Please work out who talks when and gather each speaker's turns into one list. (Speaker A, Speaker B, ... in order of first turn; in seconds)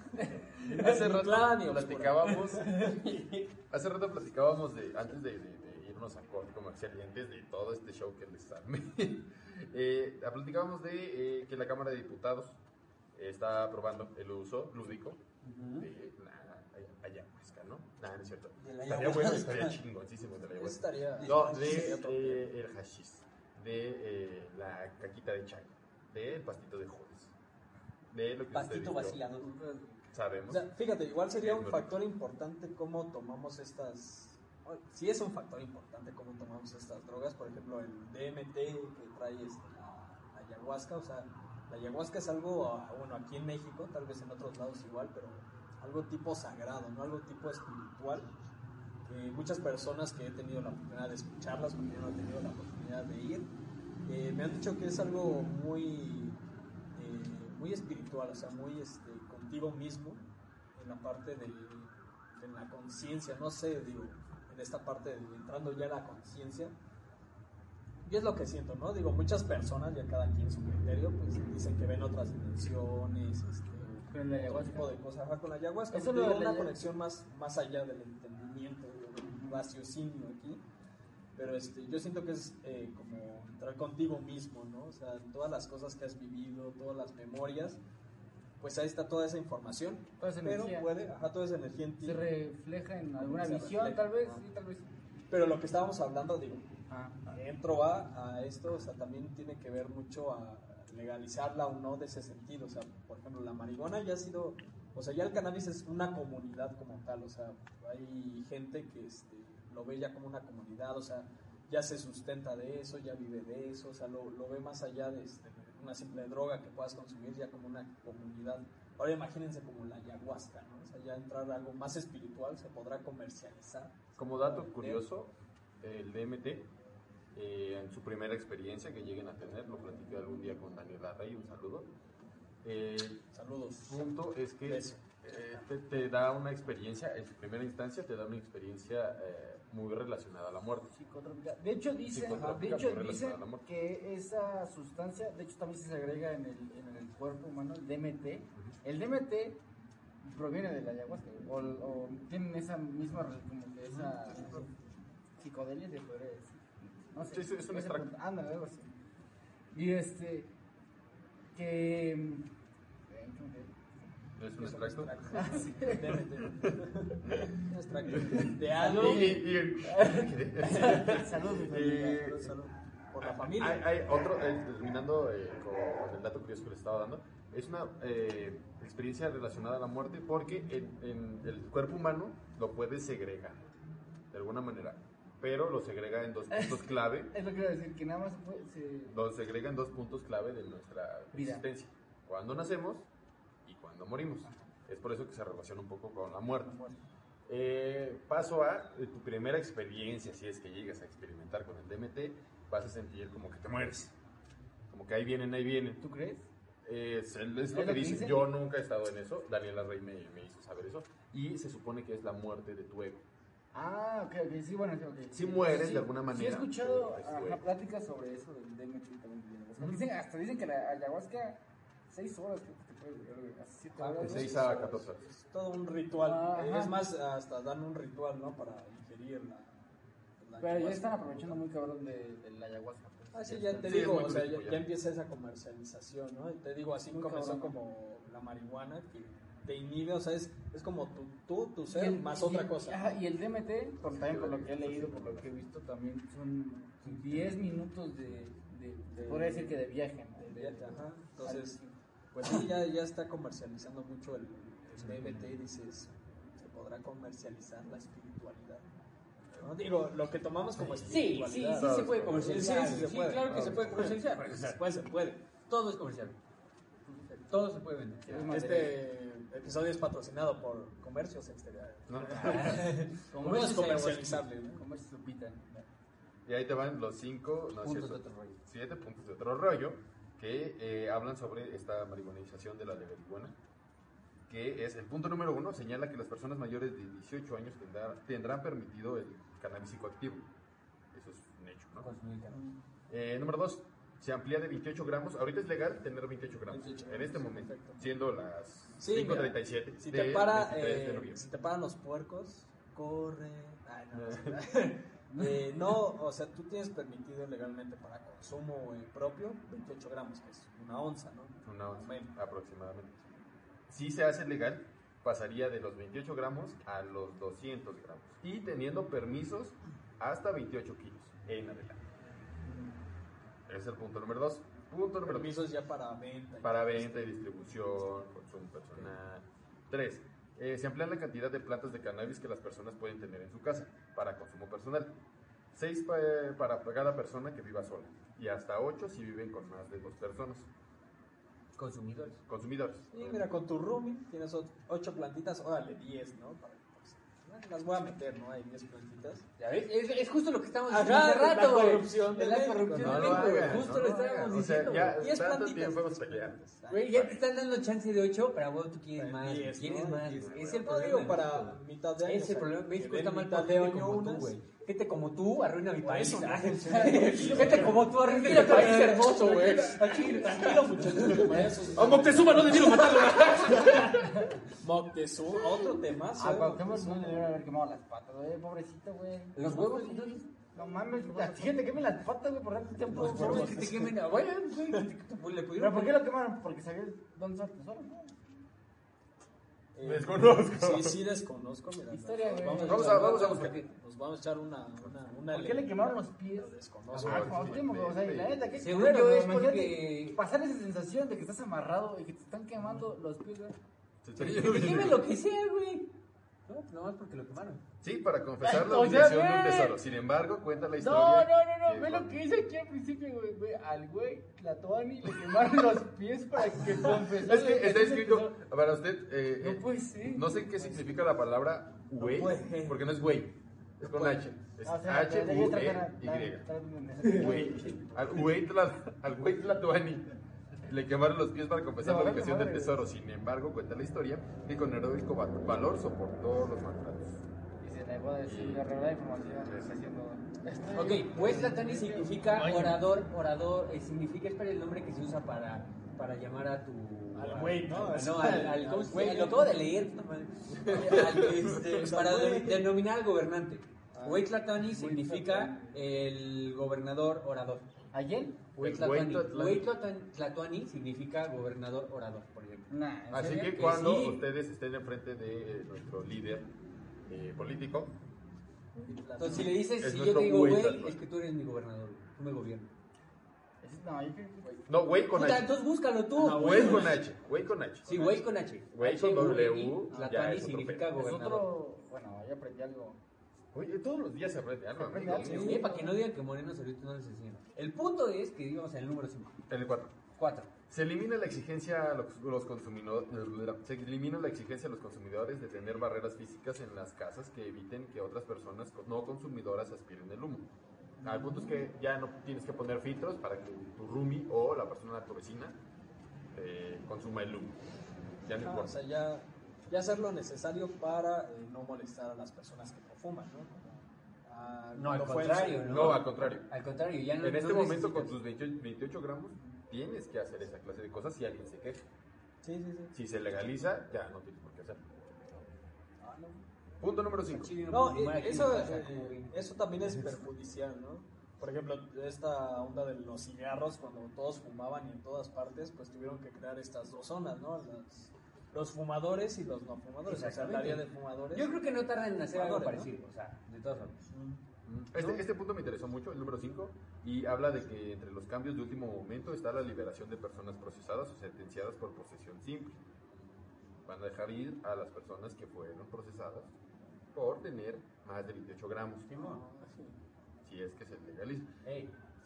Speaker A: 0.6-3.1, 20.5-22.5, 30.5-48.3, 49.0-53.5, 54.0-56.4, 56.9-60.2, 60.8-66.7, 68.0-80.6, 81.4-87.8, 88.6-92.2, 93.2-94.4, 95.3-96.6, 97.3-125.0, 133.3-134.0, 134.6-135.6, 142.3-142.6, 164.6-169.4, 170.6-171.1, 171.7-173.9, 224.0-229.8, 230.4-231.6, 233.3-243.1, 249.1-249.8, 250.4-251.8, 252.3-258.8, 259.6-265.4, 268.5-274.8, 296.7-298.0, 299.0-312.3, 325.2-327.4, 343.1-349.4, 350.9-353.9, 355.2-357.2, 359.1-364.5, 366.0-377.5, 381.2-381.8, 383.1-384.1, 389.9-397.7, 422.2-423.0, 424.0-424.6, 427.3-428.0, 447.3-449.8, 450.9-452.9, 454.1-454.5, 469.0-469.8, 476.3-477.3, 478.1-478.4, 485.4-485.9, 501.2-501.8, 508.6-516.2, 522.6-523.1, 526.2-526.6, 527.9-541.8, 542.5-543.1, 544.3-544.6, 559.3-560.1
Speaker B: 0.7-2.8, 3.7-12.6, 13.1-15.2, 15.8-27.3, 28.1-29.2, 30.1-30.6, 31.4-32.0, 124.2-126.7, 127.3-131.9, 132.6-133.2, 133.9-140.9, 142.1-143.6, 153.9-154.6, 157.2-158.1, 164.4-165.4, 166.6-167.5, 168.1-172.5, 173.2-183.6, 184.3-187.3, 189.1-193.1, 193.7-196.8, 197.5-204.1, 204.9-206.0, 206.8-213.2, 215.3-217.6, 219.8-220.0, 224.2-225.2, 233.8-234.9, 244.0-245.5, 260.8-264.2, 272.1-272.8, 276.4-283.5, 284.5-290.5, 291.1-292.1, 293.1-301.5, 304.1-304.6, 311.6-313.2, 313.9-322.0, 323.7-325.6, 326.6-335.1, 335.7-340.7, 342.5-343.5, 352.9-357.4, 360.4-361.7, 368.7-369.2, 371.9-374.1, 390.0-391.2, 392.8-393.8, 397.2-398.6, 404.2-405.2, 408.0-412.4, 417.3-426.7, 427.2-437.4, 438.4-438.9, 439.6-440.0, 442.6-442.9, 450.7-451.9, 458.8-459.9, 463.3-466.7, 467.3-468.1, 470.0-471.2, 474.9-475.7, 476.4-481.1, 483.7-485.8, 489.7-490.1, 490.9-500.7, 501.2-505.8, 506.5-507.8, 508.4-508.9, 515.9-516.7, 517.4-522.0, 523.1-525.0, 527.0-527.7, 544.8-553.0, 554.0-556.7, 557.3-559.3, 560.6-561.7
Speaker C: 2.7-3.4, 15.4-15.9, 18.6-19.8, 21.2-21.9, 28.5-29.5, 255.0-255.5, 261.1-264.8, 265.7-266.4, 267.5-268.5, 272.4-274.4, 277.8-278.6, 292.0-292.6, 341.8-342.4, 349.6-355.2, 356.9-361.7, 362.2-371.7, 372.6-374.1, 379.5-380.4, 383.1-386.2, 397.1-397.6, 398.8-400.4, 404.4-406.1, 406.7-407.8, 440.9-457.9, 458.7-464.4, 469.4-472.9, 475.3-477.1, 478.0-481.7, 485.4-489.6, 490.4-490.7, 514.9-518.4, 527.5-530.3, 540.2-544.2, 545.1-545.4, 559.3-559.6, 561.8-562.1
Speaker D: 29.4-29.9, 74.1-75.0, 75.9-76.7, 90.2-90.9, 92.0-94.8, 96.9-97.3, 140.9-149.6, 150.2-154.7, 155.4-158.9, 159.7-160.5, 161.5-162.5, 163.1-163.7, 165.3-166.2, 168.8-172.2, 186.5-186.8, 187.3-189.1, 191.3-191.6, 196.7-196.9, 206.0-206.4, 207.7-208.4, 213.7-225.0, 226.2-226.9, 230.6-234.3, 237.1-237.7, 241.9-251.9, 267.1-267.4, 268.2-269.0, 272.5-272.7, 273.3-275.9, 305.3-305.6, 367.4-367.8, 374.2-374.6, 376.4-384.1, 385.8-388.4, 392.1-393.4, 395.5-403.8, 408.6-410.0, 410.9-418.5, 419.6-421.2, 424.8-428.4, 432.0-433.0, 437.8-442.9, 454.8-456.0, 458.1-458.6, 462.9-463.9, 473.8-474.8, 481.1-483.2, 484.9-486.2